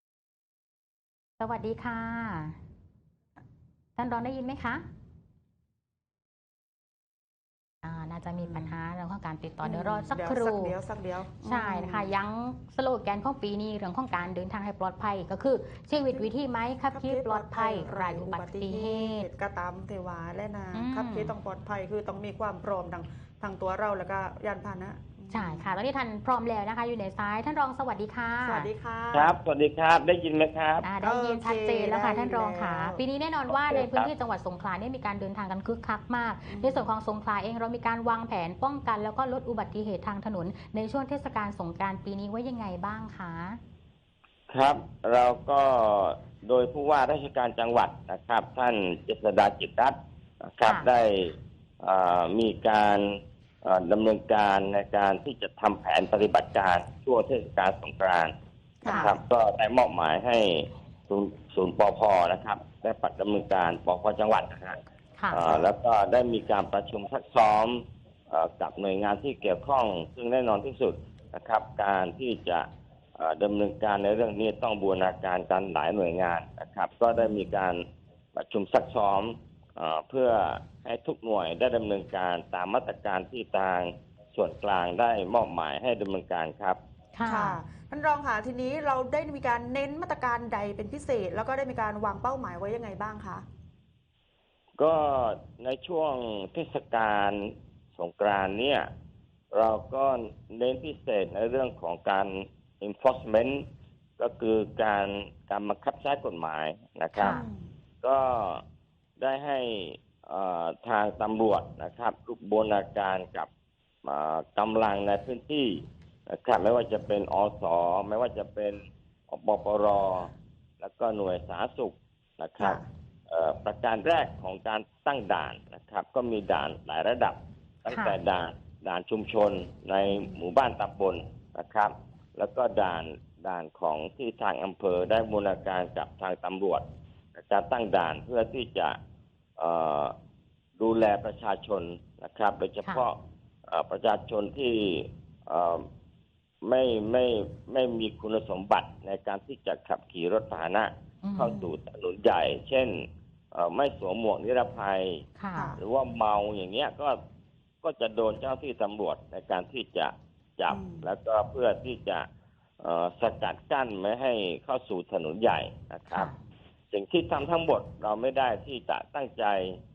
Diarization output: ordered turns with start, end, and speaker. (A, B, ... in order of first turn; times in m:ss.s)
0:01.4-0:02.6 A
0:04.0-0:04.8 A
0:07.8-0:10.7 A
0:09.6-0:12.1 B
0:11.4-0:19.3 A
0:16.9-0:25.7 B
0:20.7-0:21.3 A
0:25.3-0:28.7 A
0:28.4-0:29.3 B
0:29.1-0:30.9 C
0:30.8-0:43.6 A
0:31.0-0:33.0 B
0:33.5-0:34.1 C
0:36.5-0:36.9 B
0:44.5-0:58.3 C
0:58.8-0:59.2 B
0:58.8-0:59.2 A
0:58.9-1:04.8 C
1:05.2-1:05.4 A
1:05.3-1:17.8 C
1:17.1-1:17.4 B
1:18.3-1:26.8 C
1:27.1-1:27.6 A
1:27.2-1:33.4 B
1:34.8-1:38.9 C
1:39.5-1:43.6 C
1:44.2-1:47.4 C
1:47.1-1:47.4 A
1:47.3-1:47.7 B
1:48.0-1:48.6 C
1:49.2-1:53.5 C
1:54.0-2:16.8 C
2:07.9-2:08.2 A
2:10.1-2:10.4 B
2:17.3-2:19.0 C
2:19.6-2:20.1 C
2:20.8-2:25.8 C
2:26.6-2:35.2 C
2:31.2-2:31.6 A
2:31.4-2:31.7 B
2:35.4-2:35.7 A
2:35.5-2:35.8 B
2:35.8-2:37.2 C
2:37.8-2:42.3 C
2:40.7-2:41.1 B
2:42.8-2:46.3 C
2:46.1-2:46.4 A
2:46.9-2:49.8 C